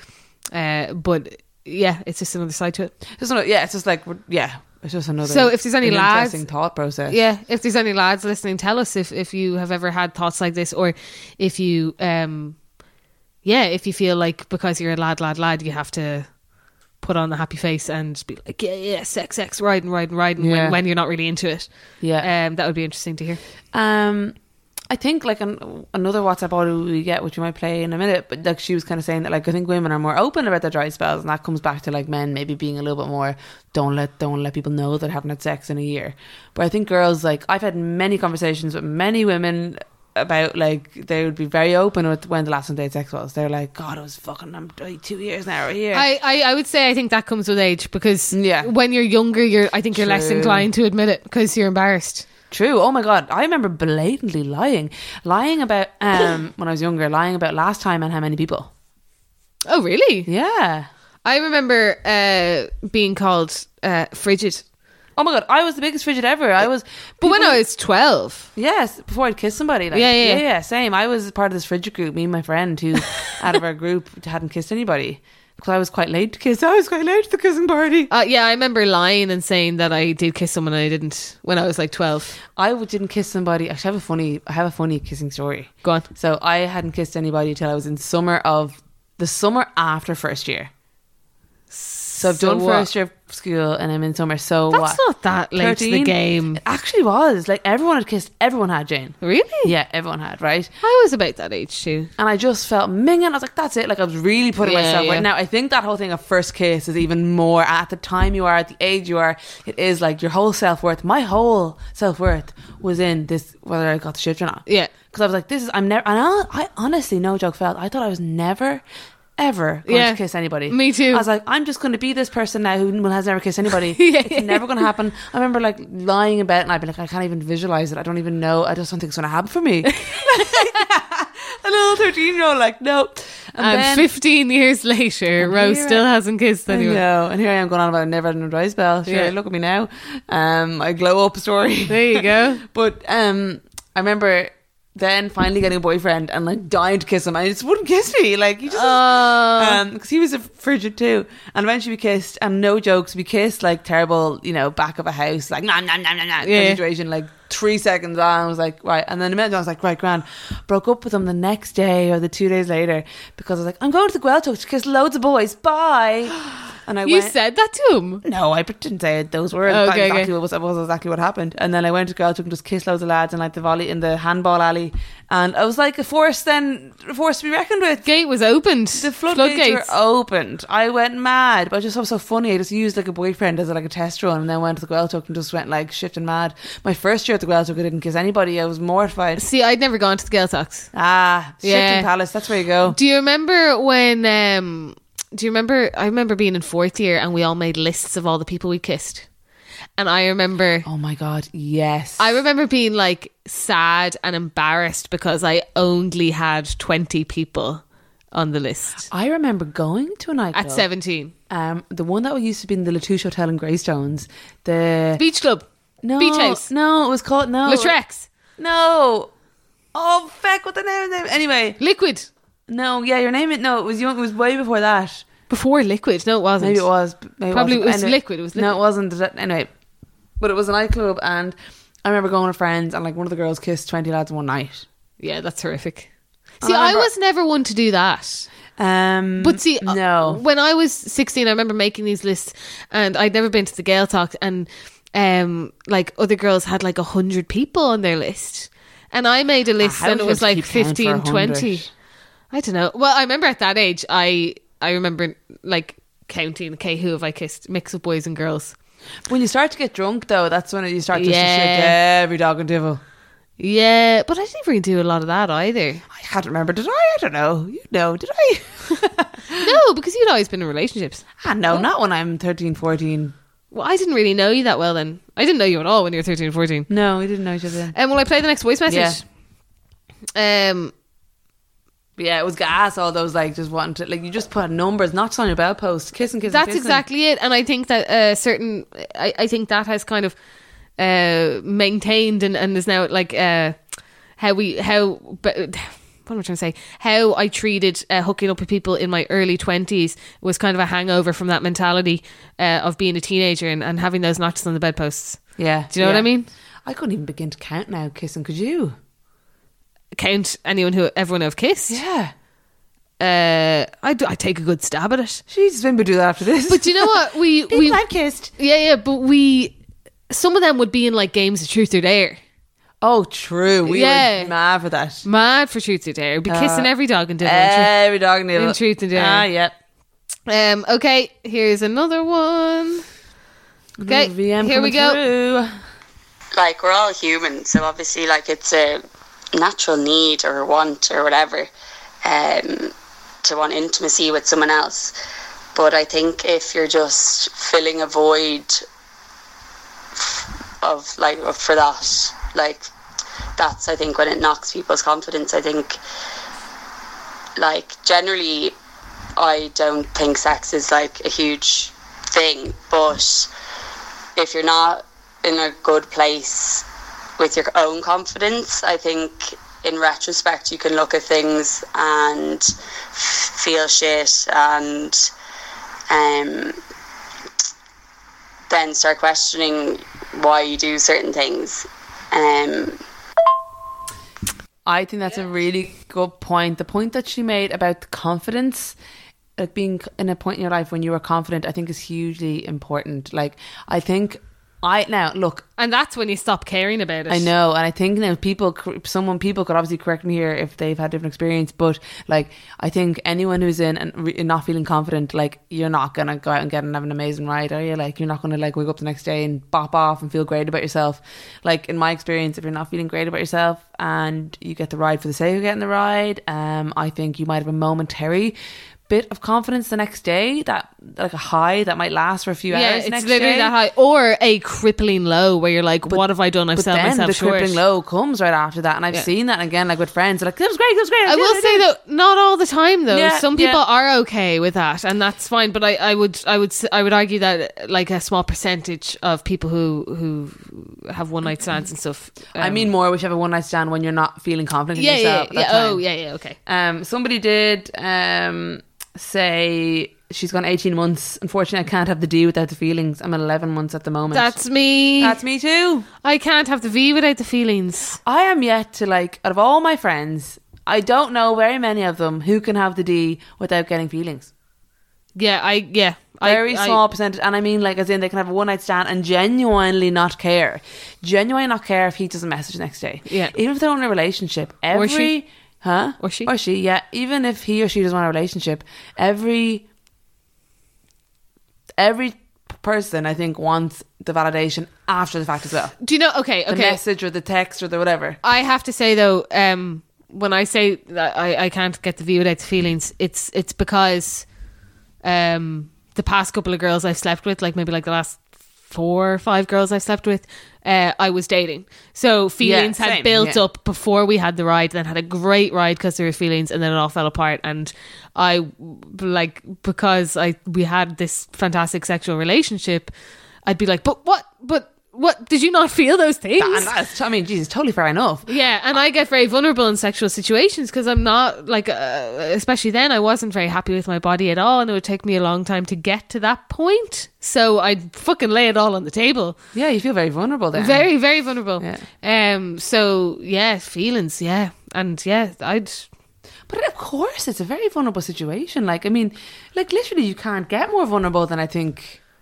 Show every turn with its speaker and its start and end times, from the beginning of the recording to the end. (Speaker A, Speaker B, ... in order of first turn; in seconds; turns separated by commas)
Speaker A: 0.5-2.9, Speaker B: 3.1-7.2, Speaker A: 5.2-6.5, Speaker A: 7.1-12.6, Speaker A: 13.4-16.4, Speaker A: 17.0-23.4, Speaker B: 20.4-20.8, Speaker B: 22.0-22.3, Speaker B: 23.7-24.4, Speaker B: 24.9-46.1, Speaker A: 45.9-52.3, Speaker B: 48.3-48.7, Speaker B: 49.9-50.7, Speaker B: 52.5-58.7, Speaker A: 59.7-60.3, Speaker B: 60.3-60.9, Speaker A: 61.2-64.7, Speaker B: 65.2-67.6, Speaker A: 67.2-68.5, Speaker B: 68.6-78.1, Speaker A: 69.9-70.4, Speaker A: 78.1-82.4, Speaker B: 82.5-90.7, Speaker A: 91.7-92.9, Speaker B: 92.2-95.0, Speaker A: 94.7-96.6, Speaker B: 95.5-100.7, Speaker A: 99.2-99.7, Speaker A: 100.8-102.1, Speaker B: 102.2-118.8, Speaker A: 104.6-105.3, Speaker A: 114.7-114.9, Speaker B: 119.4-134.1, Speaker A: 119.9-121.2, Speaker A: 124.0-124.7, Speaker A: 130.0-130.6, Speaker A: 133.6-137.0, Speaker B: 135.4-136.1, Speaker B: 136.7-167.3, Speaker A: 139.1-139.3, Speaker A: 141.9-142.6, Speaker A: 148.7-149.8, Speaker A: 156.4-156.8, Speaker A: 167.1-168.2, Speaker B: 168.2-178.1, Speaker A: 169.7-170.3, Speaker A: 178.0-179.9, Speaker B: 179.0-189.4, Speaker A: 189.4-190.9, Speaker B: 190.9-193.0, Speaker A: 191.6-192.1, Speaker A: 192.8-199.3, Speaker A: 200.0-200.9, Speaker B: 200.8-202.4, Speaker A: 202.2-209.1, Speaker B: 209.1-210.9, Speaker A: 210.5-211.3, Speaker B: 211.5-215.2, Speaker A: 215.2-215.7, Speaker B: 216.0-218.0, Speaker A: 216.2-216.7, Speaker A: 217.7-218.3, Speaker B: 218.6-219.3, Speaker B: 219.9-221.8, Speaker A: 221.8-222.3, Speaker B: 222.7-225.3, Speaker A: 225.5-226.9, Speaker B: 226.6-229.7, Speaker A: 227.5-228.7, Speaker B: 230.4-234.9, Speaker A: 235.2-236.1, Speaker B: 236.6-237.1, Speaker A: 236.6-238.5, Speaker B: 238.8-240.4, Speaker A: 239.4-251.9, Speaker B: 249.8-251.9, Speaker A: 252.5-258.8, Speaker B: 259.3-263.0, Speaker A: 261.1-262.0, Speaker A: 263.6-266.0, Speaker B: 266.1-269.7, Speaker A: 269.6-271.9, Speaker B: 271.4-273.4, Speaker A: 273.7-276.9, Speaker B: 276.9-278.0, Speaker A: 277.9-279.2, Speaker B: 278.9-279.2, Speaker A: 280.4-280.9, Speaker B: 282.2-287.0, Speaker A: 286.4-290.4, Speaker A: 291.0-293.8, Speaker A: 294.4-306.5, Speaker B: 305.6-306.3, Speaker B: 306.9-308.9, Speaker A: 310.1-312.0, Speaker B: 311.9-312.3, Speaker A: 313.2-315.4, Speaker B: 315.5-318.5, Speaker A: 316.7-318.0, Speaker A: 318.5-319.8, Speaker A: 320.3-322.4, Speaker B: 323.0-325.2, Speaker A: 323.9-324.5, Speaker A: 325.2-328.0, Speaker B: 326.5-326.9, Speaker B: 327.4-329.8, Speaker A: 328.5-329.5, Speaker A: 330.5-333.1, Speaker B: 334.0-335.7, Speaker A: 334.1-335.2, Speaker C: 336.6-339.0, Speaker C: 339.5-341.7, Speaker C: 342.2-345.1, Speaker C: 345.8-348.9, Speaker C: 350.2-352.9, Speaker C: 353.6-356.0, Speaker C: 357.6-358.7, Speaker C: 359.4-363.5, Speaker C: 364.4-366.9, Speaker C: 367.4-375.3, Speaker C: 376.1-376.8, Speaker C: 378.7-383.0, Speaker B: 384.9-389.0, Speaker B: 389.6-395.6, Speaker A: 395.8-397.5, Speaker B: 397.3-418.6, Speaker B: 419.1-423.7, Speaker A: 422.7-427.8, Speaker B: 426.7-431.9, Speaker A: 431.3-442.9, Speaker B: 433.1-433.8, Speaker B: 442.6-446.0, Speaker A: 445.0-446.6, Speaker B: 446.7-454.6, Speaker A: 454.3-455.4, Speaker B: 455.2-456.1, Speaker A: 456.2-458.2, Speaker B: 458.2-464.5, Speaker A: 465.4-467.0, Speaker B: 466.4-479.9, Speaker A: 473.3-473.5, Speaker A: 474.9-475.3, Speaker A: 476.2-476.5, Speaker B: 482.0-485.9, Speaker A: 486.0-487.0, Speaker B: 486.7-488.4, Speaker A: 488.4-494.5, Speaker A: 495.2-513.1, Speaker B: 502.6-503.6, Speaker A: 513.6-516.9, Speaker B: 516.6-518.5, Speaker A: 518.5-529.6, Speaker B: 529.7-531.1, Speaker A: 530.8-536.1, Speaker B: 531.8-532.0, Speaker B: 536.7-542.2